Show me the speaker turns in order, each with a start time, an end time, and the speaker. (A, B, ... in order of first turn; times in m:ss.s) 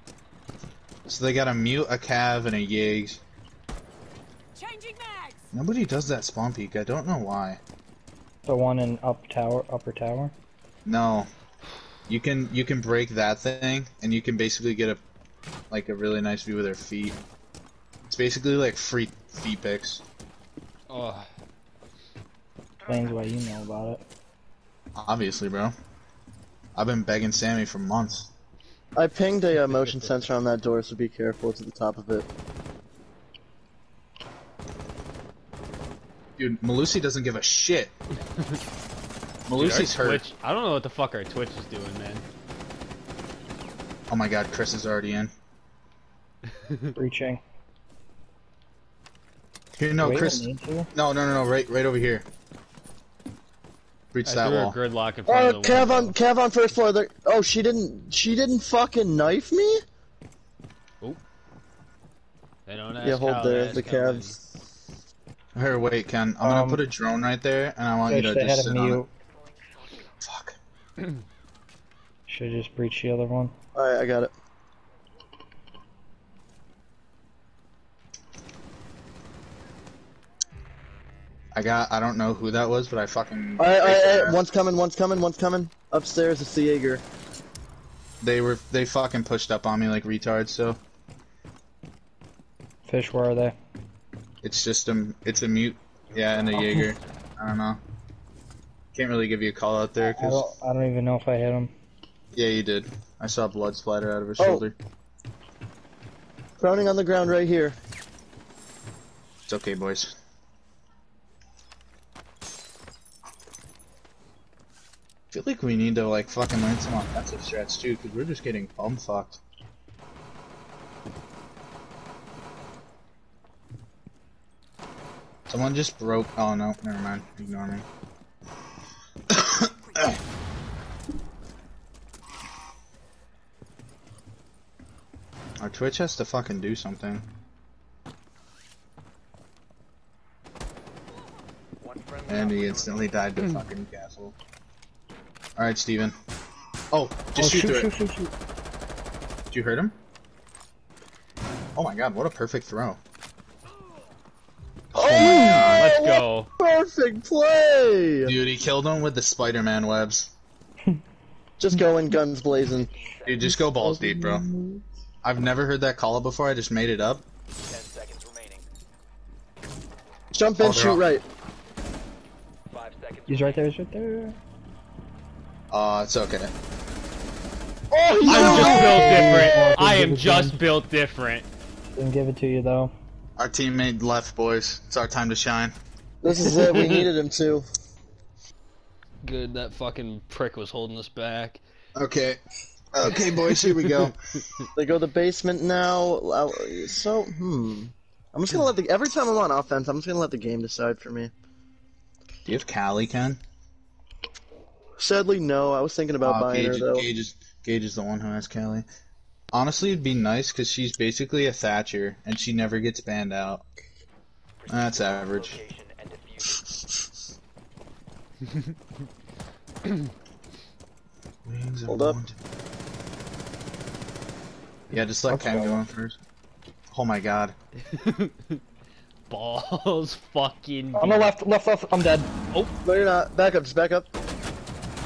0:01.0-0:03.2 A
0:05.5-0:07.6 A
0:08.4-0:10.3 B
0:10.8-0:11.3 A
0:12.1-0:15.0 A
0:15.7-0:17.2 A
0:18.1-0:20.0 A
0:20.9-0:21.3 C
0:22.8-0:24.0 B
0:25.0-0:25.7 A
0:26.7-0:28.3 A
0:29.0-0:32.3 D
0:29.7-0:30.2 C
0:36.4-0:37.9 A
0:39.5-0:40.2 A
0:39.6-0:42.2 C
0:44.1-0:45.3 A
0:46.5-0:46.9 C
0:47.0-0:47.4 B
0:49.8-0:52.2 A
0:50.0-0:50.9 B
0:54.1-0:54.8 A
0:54.2-0:56.2 C
0:55.3-0:59.8 D
1:02.6-1:04.4 C
1:03.0-1:04.3 D
1:05.5-1:09.0 A
1:06.4-1:06.8 B
1:08.0-1:09.1 B
1:10.2-1:10.6 A
1:12.3-1:13.5 B
1:13.7-1:14.3 D
1:21.5-1:24.4 A
1:23.6-1:27.0 D
1:28.2-1:30.8 A
1:32.8-1:33.6 B
1:34.4-1:37.8 A
1:36.0-1:37.2 E
1:38.9-1:40.5 A
1:40.0-1:41.7 B
1:42.3-1:44.8 A
1:44.4-1:44.6 D
1:46.6-1:47.8 D
1:49.5-1:50.2 A
1:55.3-1:59.4 A
2:05.5-2:07.8 A
2:09.3-2:10.2 A
2:15.6-2:17.2 A
2:21.8-2:23.2 E
2:22.3-2:24.3 A
2:25.6-2:26.2 A
2:26.9-2:27.9 A
2:27.4-2:28.3 B
2:29.5-2:30.0 A
2:31.8-2:33.0 A
2:34.9-2:35.9 A
2:34.9-2:38.3 D
2:35.8-2:36.5 C
2:38.2-2:40.3 A
2:41.6-2:42.9 D
2:42.6-2:43.6 E
2:43.2-2:44.4 A
2:43.4-2:44.8 B
2:45.2-2:47.2 A
2:47.6-2:48.6 E
2:50.3-2:51.2 D
2:50.6-2:51.0 A
2:52.7-2:53.6 E
2:53.3-2:54.4 B
2:55.7-2:56.5 A
2:57.9-2:59.6 D
2:58.2-3:00.6 B
2:58.2-3:01.5 C
3:02.0-3:02.9 B
3:03.4-3:05.7 A
3:06.2-3:07.6 D
3:06.4-3:07.0 C
3:09.2-3:11.6 C
3:11.9-3:12.4 A
3:12.9-3:14.2 A
3:13.1-3:14.6 C
3:14.8-3:21.3 D
3:22.4-3:23.4 A
3:25.0-3:27.0 D
3:26.2-3:28.8 A
3:29.5-3:33.6 A
3:34.6-3:36.8 E
3:34.7-3:35.6 A
3:38.5-3:38.7 C
3:39.8-3:40.1 C
3:41.4-3:42.4 A
3:41.9-3:42.2 D
3:44.9-3:46.2 A
3:45.3-3:45.8 B
3:46.9-3:47.5 A
3:47.8-3:48.6 C
3:49.3-3:51.3 C
3:51.0-3:52.3 B
3:52.8-3:54.1 D